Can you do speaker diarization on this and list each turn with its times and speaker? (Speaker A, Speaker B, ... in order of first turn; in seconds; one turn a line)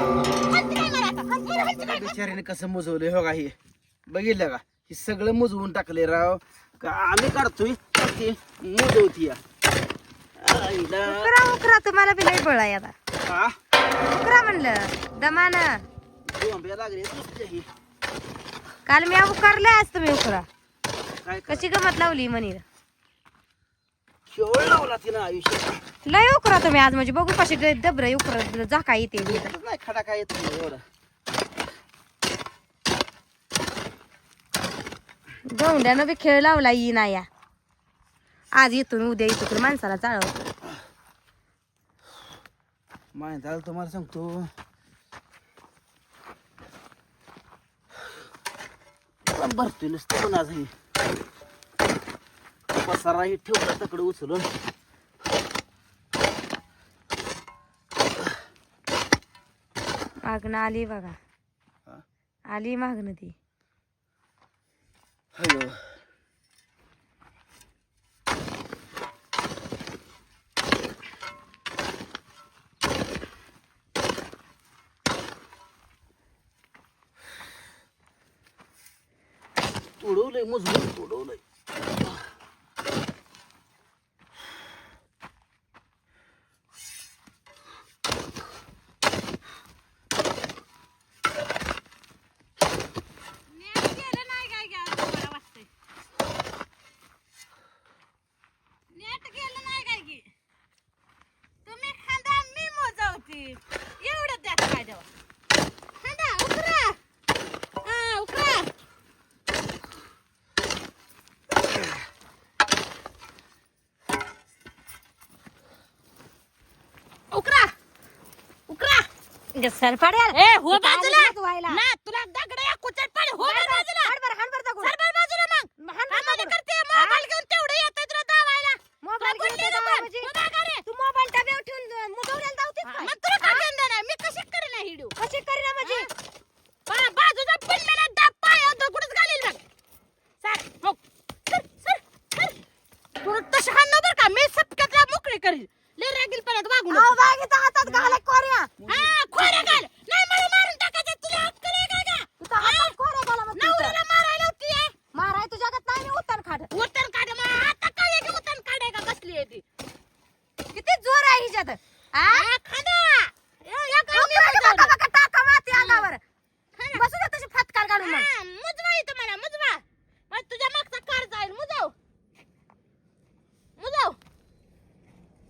Speaker A: 0.5-2.4
Speaker B: 1.8-3.5
Speaker B: 4.1-9.4
Speaker B: 10.4-11.3
Speaker C: 11.0-12.9
Speaker B: 13.2-13.6
Speaker C: 14.1-15.8
Speaker B: 16.2-17.7
Speaker C: 18.9-20.5
Speaker B: 21.2-21.6
Speaker C: 21.5-22.6
Speaker B: 24.3-25.8
Speaker C: 26.1-29.5
Speaker B: 29.2-30.8
Speaker C: 35.5-37.3
Speaker C: 38.5-40.3
Speaker B: 43.1-44.5
Speaker B: 49.3-50.7
Speaker B: 52.7-54.5
Speaker C: 60.2-61.2
Speaker C: 62.5-63.3
Speaker B: 65.3-65.8
Speaker B: 80.0-81.4
Speaker A: 93.5-95.7
Speaker A: 98.9-100.3
Speaker A: 101.6-105.0
Speaker A: 106.0-107.0
Speaker A: 107.8-108.7
Speaker A: 117.3-117.7
Speaker A: 118.7-119.1
Speaker C: 119.5-121.8
Speaker A: 120.3-124.1
Speaker C: 123.4-124.9
Speaker A: 124.8-130.8
Speaker C: 125.8-127.2
Speaker C: 129.0-130.3
Speaker C: 130.8-133.6
Speaker A: 132.8-135.1
Speaker C: 135.2-136.1
Speaker A: 135.8-136.1
Speaker A: 136.9-139.6
Speaker A: 140.4-142.6
Speaker A: 143.2-147.1
Speaker C: 146.9-148.7
Speaker A: 147.8-148.2
Speaker B: 148.8-149.2
Speaker A: 148.9-152.9
Speaker C: 152.4-154.0
Speaker A: 153.5-154.9
Speaker C: 155.1-156.7
Speaker A: 156.7-159.6
Speaker C: 160.7-162.5
Speaker A: 162.3-164.9
Speaker C: 164.1-166.2
Speaker A: 165.7-166.1
Speaker A: 166.8-167.0
Speaker C: 166.9-168.3
Speaker A: 168.0-171.9
Speaker A: 173.8-174.2